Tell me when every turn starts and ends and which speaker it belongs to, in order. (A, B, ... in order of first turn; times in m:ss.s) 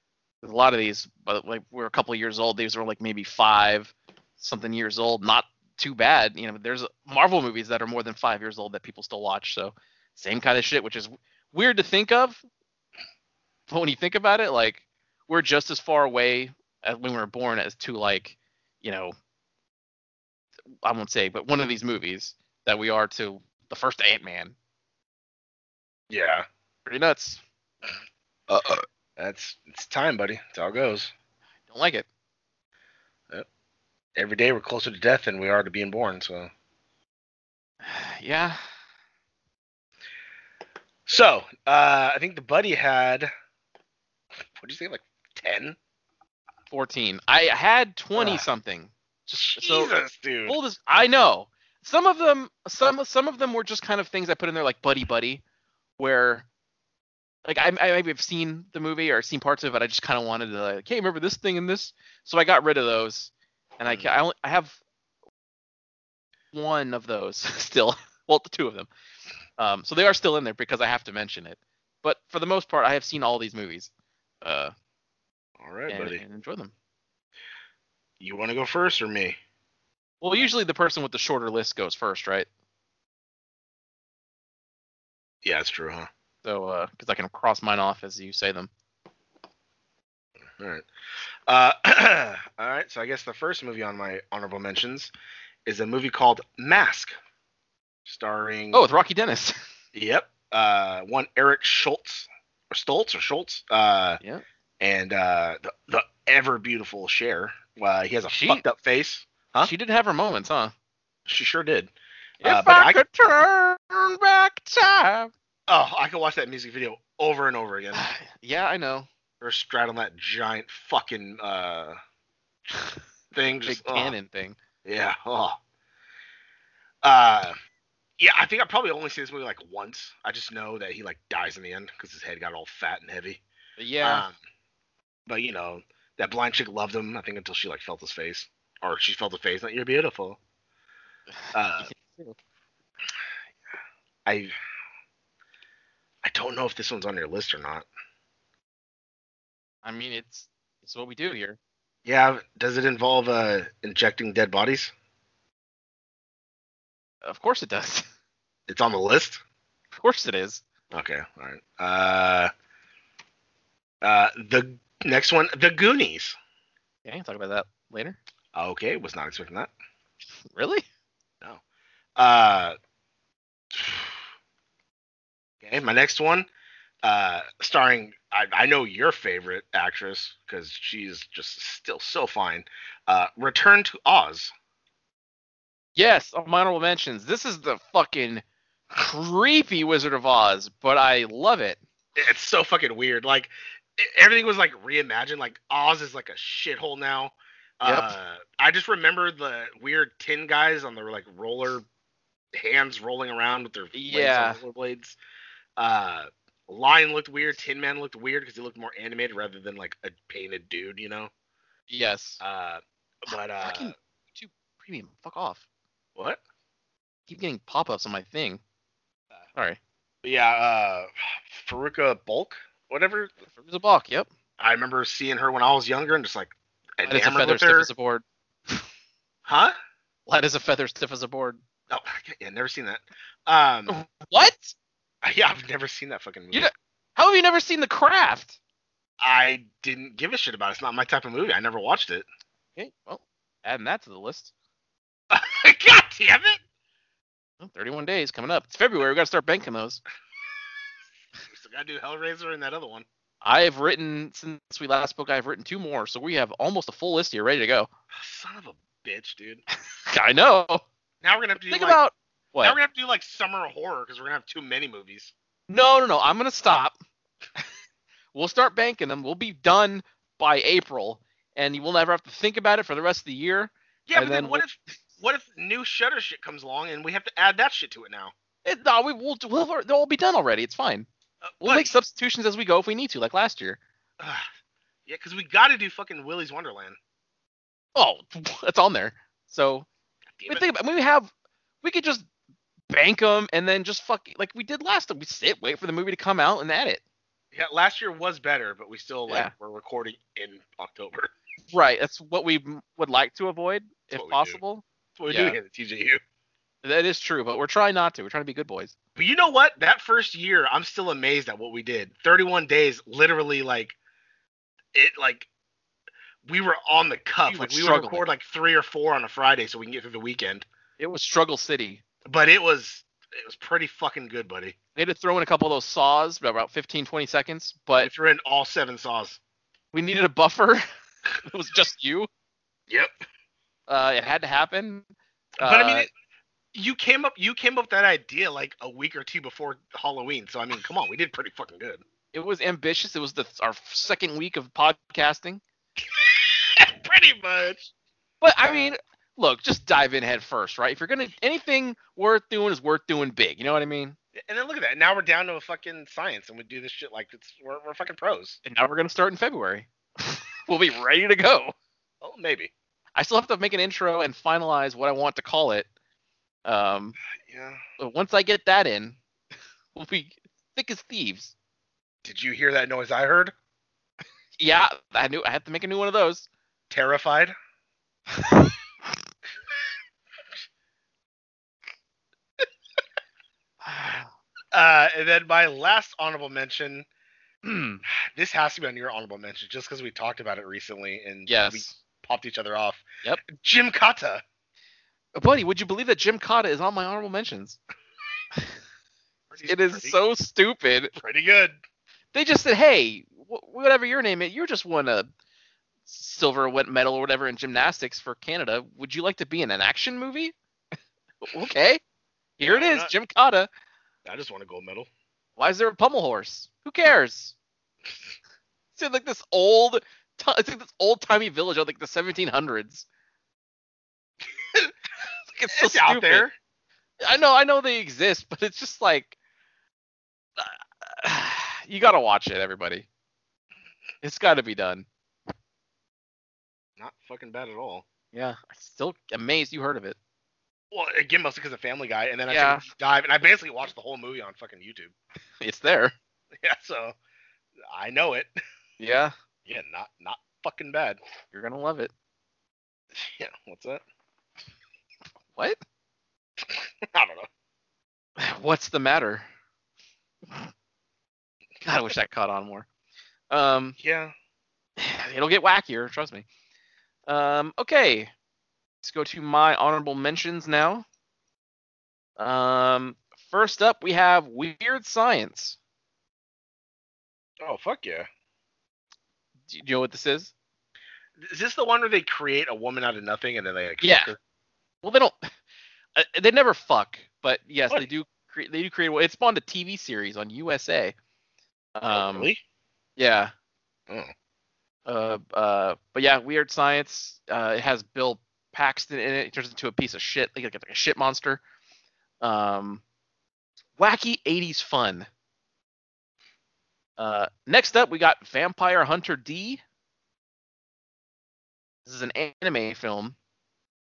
0:00.4-0:12.4 A
0:13.7-0:19.1 A
0:20.8-0:24.5 A
0:26.1-0:26.4 B
0:26.8-0:27.4 A
0:29.2-0:31.1 B
0:31.7-0:32.1 A
0:34.2-0:36.5 B
0:37.8-0:38.6 A
0:41.1-0:43.3 B
0:44.6-0:45.8 B
0:46.7-0:49.9 A
0:48.2-0:48.4 B
0:49.4-0:50.6 B
0:50.4-0:55.4 A
0:56.0-0:56.4 A
0:57.4-1:04.8 A
1:03.8-1:04.1 B
1:06.5-1:08.9 A
1:09.6-1:13.9 A
1:14.4-1:14.7 A
1:15.6-1:16.2 B
1:15.9-1:16.7 A
1:18.2-1:19.4 B
1:20.2-1:22.5 A
1:25.4-1:26.1 B
1:26.4-1:28.7 A
1:30.6-1:30.9 B
1:31.5-1:35.1 B
1:35.6-1:37.2 B
1:38.0-1:38.8 B
1:38.7-1:39.6 A
1:39.9-1:44.2 B
1:44.8-1:49.7 B
1:48.3-1:48.6 A
1:49.6-1:50.7 A
1:51.3-1:53.0 B
1:52.4-1:55.3 A
1:55.7-1:58.0 B
1:57.9-1:59.1 A
1:59.4-2:02.0 B
2:03.3-2:04.1 B
2:03.6-2:04.6 A
2:04.8-2:05.6 B
2:07.0-2:07.6 B
2:08.2-2:13.4 B
2:13.8-2:14.2 A
2:14.0-2:14.4 B
2:15.3-2:20.4 B
2:21.5-2:21.9 B
2:21.8-2:22.4 A
2:24.2-2:24.5 B
2:26.2-2:27.8 B
2:29.8-2:31.6 A
2:32.0-2:34.9 B
2:37.2-2:38.0 A
2:38.7-2:39.4 B
2:39.9-2:40.6 A
2:40.9-2:42.5 B
2:44.0-2:46.3 B
2:47.0-2:48.2 A
2:48.5-2:49.7 B
2:50.5-2:50.8 A
2:52.2-2:52.8 B
2:53.7-2:54.1 B
2:55.6-2:56.5 B
2:57.0-3:04.5 B
3:06.0-3:08.4 A
3:08.9-3:11.8 A
3:12.2-3:21.8 B
3:17.8-3:18.1 A
3:22.5-3:25.2 B
3:23.9-3:24.6 A
3:25.8-3:31.3 B
3:31.9-3:32.4 A
3:32.4-3:33.9 B
3:33.6-3:35.6 A
3:36.2-3:36.4 B
3:37.3-3:38.6 A
3:40.2-3:43.3 B
3:43.5-3:44.3 A
3:44.6-3:47.9 B
3:47.0-3:48.8 A
3:49.4-3:49.7 B
3:50.3-3:51.6 A
3:51.9-3:54.0 B
3:53.9-3:54.7 A
3:55.2-3:56.7 B
3:56.5-3:58.6 A
3:59.2-4:02.2 B
4:02.8-4:04.5 A
4:05.3-4:06.6 B
4:07.6-4:10.0 A
4:11.4-4:13.0 B
4:13.4-4:17.9 A
4:18.1-4:19.6 B
4:20.1-4:20.8 A
4:21.2-4:22.0 B
4:21.7-4:22.8 A
4:22.6-4:25.3 B
4:25.7-4:27.0 A
4:28.3-4:34.6 A
4:34.1-4:38.3 B
4:38.6-4:41.1 A
4:41.4-4:41.9 B
4:41.6-4:43.8 A
4:44.2-4:44.5 B
4:45.0-4:47.0 B
4:47.9-4:49.9 A
4:50.4-4:50.6 B
4:50.5-4:51.3 A
4:51.8-4:52.2 A
4:52.9-4:57.0 A
4:57.5-5:01.3 B
4:59.3-4:59.5 A
5:01.7-5:05.6 A
5:04.1-5:04.6 B
5:05.2-5:06.2 B
5:06.8-5:08.9 A
5:09.2-5:14.0 B
5:14.9-5:15.5 B
5:16.4-5:20.6 B
5:17.4-5:18.2 A
5:21.0-5:22.0 A
5:22.2-5:24.8 B
5:25.0-5:28.1 A
5:28.0-5:29.4 B
5:29.9-5:30.8 A
5:31.4-5:32.3 A
5:33.9-5:35.0 A
5:35.6-5:36.1 A
5:35.6-5:36.1 B
5:36.7-5:42.0 B
5:42.3-5:45.6 A
5:46.1-5:47.9 B
5:48.4-5:54.2 A
5:48.6-5:48.9 B
5:54.4-5:58.6 B
5:58.6-6:01.7 A
6:02.2-6:02.7 B
6:03.2-6:05.9 A
6:06.6-6:07.2 A
6:07.4-6:07.8 B
6:08.0-6:09.2 A
6:09.9-6:11.5 A
6:12.2-6:13.5 B
6:14.6-6:16.5 A
6:16.9-6:17.5 B
6:23.8-6:24.3 A
6:24.7-6:27.1 B
6:27.6-6:28.0 A
6:28.1-6:34.4 B
6:31.5-6:31.9 A
6:35.4-6:37.8 A
6:39.5-6:40.2 B
6:39.6-6:41.1 A
6:41.2-6:41.8 B
6:42.3-6:45.3 A
6:46.1-6:50.5 A
6:51.4-6:52.0 A
6:52.6-6:53.7 A
6:52.7-6:53.1 B
6:54.2-6:55.1 B
6:55.6-6:57.5 A
6:59.0-7:03.0 A
7:05.6-7:06.5 A
7:05.7-7:06.5 B
7:07.2-7:09.3 A
7:10.6-7:13.1 A
7:14.2-7:15.0 A
7:17.0-7:18.0 B
7:18.3-7:20.2 A
7:20.9-7:25.1 B
7:22.5-7:22.8 A
7:25.6-7:26.1 A
7:26.6-7:27.2 B
7:27.8-7:28.6 B
7:29.0-7:29.3 A
7:29.6-7:31.2 B
7:31.5-7:32.1 A
7:33.1-7:34.0 B
7:36.6-7:37.5 B
7:38.4-7:39.4 A
7:41.8-7:42.8 A
7:43.5-7:44.0 A
7:44.0-7:44.3 B
7:45.0-7:46.4 A
7:47.3-7:48.3 A
7:49.0-7:51.0 A
7:52.4-7:55.8 A
7:57.6-7:58.3 B
7:59.7-8:00.5 A
8:01.4-8:04.4 B
8:04.0-8:04.3 A
8:05.0-8:05.5 A
8:06.2-8:11.1 A
8:11.9-8:12.5 A
8:12.1-8:12.6 B
8:13.2-8:13.5 A
8:15.0-8:21.6 A
8:22.4-8:23.0 A
8:24.0-8:25.3 A
8:27.2-8:29.8 A
8:32.0-8:33.3 A